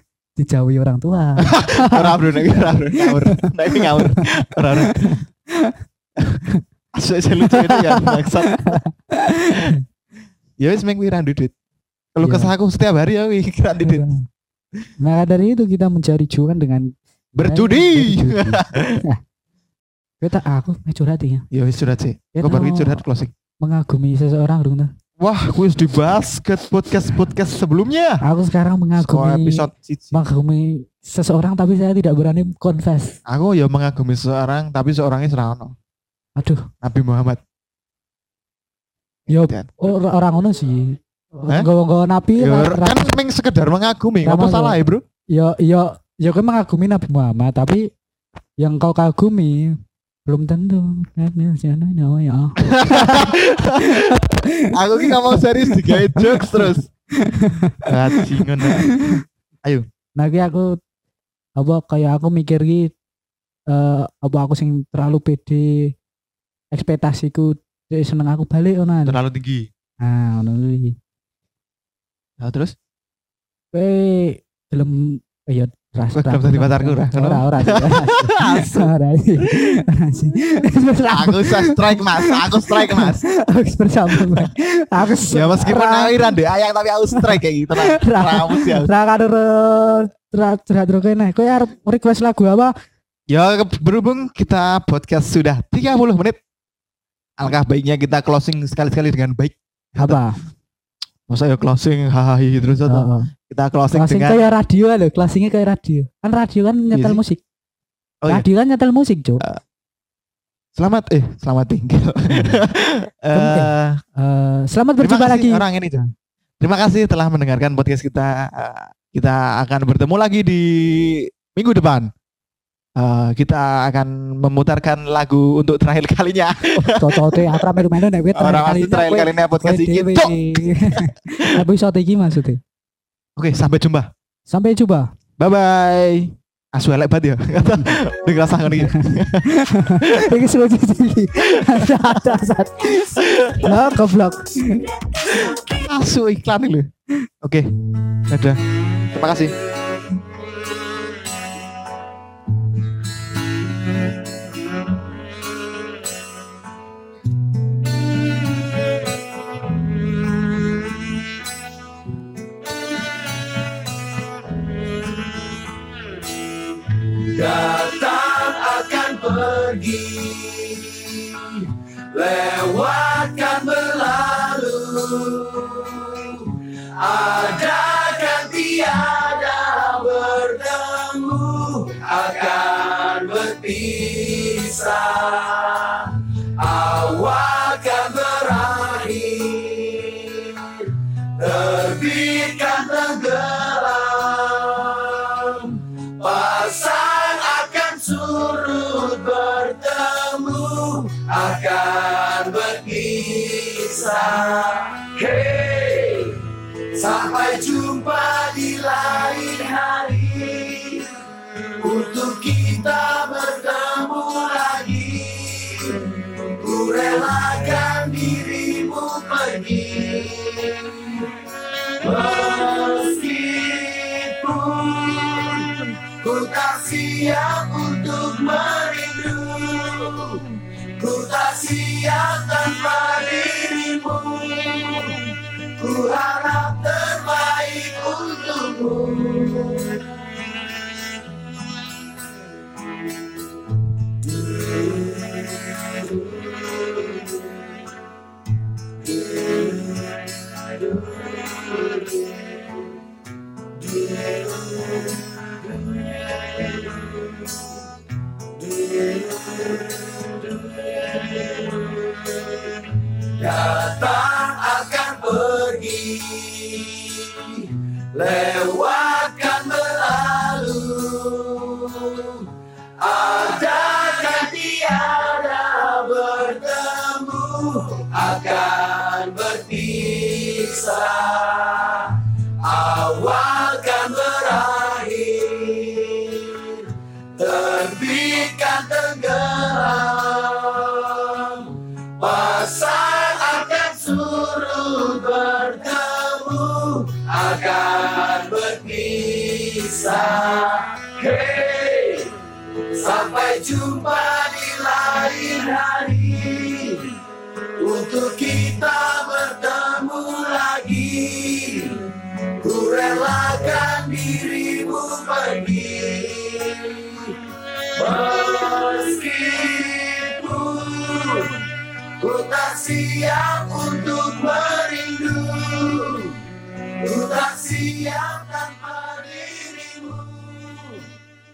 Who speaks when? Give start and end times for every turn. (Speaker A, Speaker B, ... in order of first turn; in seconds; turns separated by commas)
Speaker A: 0.4-2.4, Speaker B: 1.4-5.2, Speaker A: 3.0-5.8, Speaker B: 6.9-8.8, Speaker A: 7.4-9.8, Speaker B: 10.6-11.5, Speaker B: 12.1-14.1, Speaker A: 12.2-12.5, Speaker A: 13.8-14.2, Speaker A: 15.0-19.2, Speaker B: 17.4-19.0, Speaker A: 20.2-21.4, Speaker B: 21.5-23.3, Speaker A: 22.4-23.0, Speaker A: 23.6-24.9, Speaker B: 25.2-28.2, Speaker A: 28.2-33.2, Speaker B: 28.9-30.2, Speaker B: 33.2-35.7, Speaker A: 36.4-36.6, Speaker B: 36.8-37.4, Speaker B: 39.3-39.7, Speaker A: 39.3-43.1, Speaker B: 42.4-45.0, Speaker A: 44.2-44.8, Speaker A: 45.3-47.9, Speaker A: 48.6-59.2, Speaker B: 52.6-56.9, Speaker B: 57.8-58.9, Speaker A: 60.2-60.8, Speaker A: 61.6-62.9, Speaker A: 63.7-65.9, Speaker A: 66.7-69.2, Speaker B: 69.0-69.7, Speaker A: 70.0-71.0, Speaker B: 72.4-72.7, Speaker A: 73.7-86.3, Speaker B: 76.1-78.9, Speaker B: 81.1-83.2, Speaker B: 84.1-84.5, Speaker B: 85.3-88.9, Speaker A: 87.1-92.7, Speaker B: 93.3-96.4, Speaker B: 97.4-100.2, Speaker A: 100.0-100.4, Speaker B: 101.3-104.5, Speaker A: 102.9-103.3, Speaker A: 103.9-107.4, Speaker B: 106.9-107.2, Speaker A: 108.3-109.4, Speaker B: 110.8-114.0, Speaker A: 113.3-116.1, Speaker B: 115.0-116.0, Speaker B: 116.6-122.1, Speaker B: 123.0-127.8, Speaker A: 126.8-132.6, Speaker B: 128.3-131.6, Speaker B: 133.3-134.1, Speaker A: 134.5-135.1, Speaker B: 135.4-140.4, Speaker A: 138.8-144.9, Speaker B: 141.4-142.3, Speaker B: 143.1-143.7, Speaker B: 145.3-146.9, Speaker B: 147.4-147.7, Speaker B: 148.3-149.5, Speaker C: 166.9-211.2, Speaker C: 211.8-221.3, Speaker C: 222.0-240.1, Speaker C: 244.2-247.5, Speaker C: 249.0-252.9, Speaker C: 253.8-257.8, Speaker C: 258.4-307.2, Speaker C: 307.8-331.1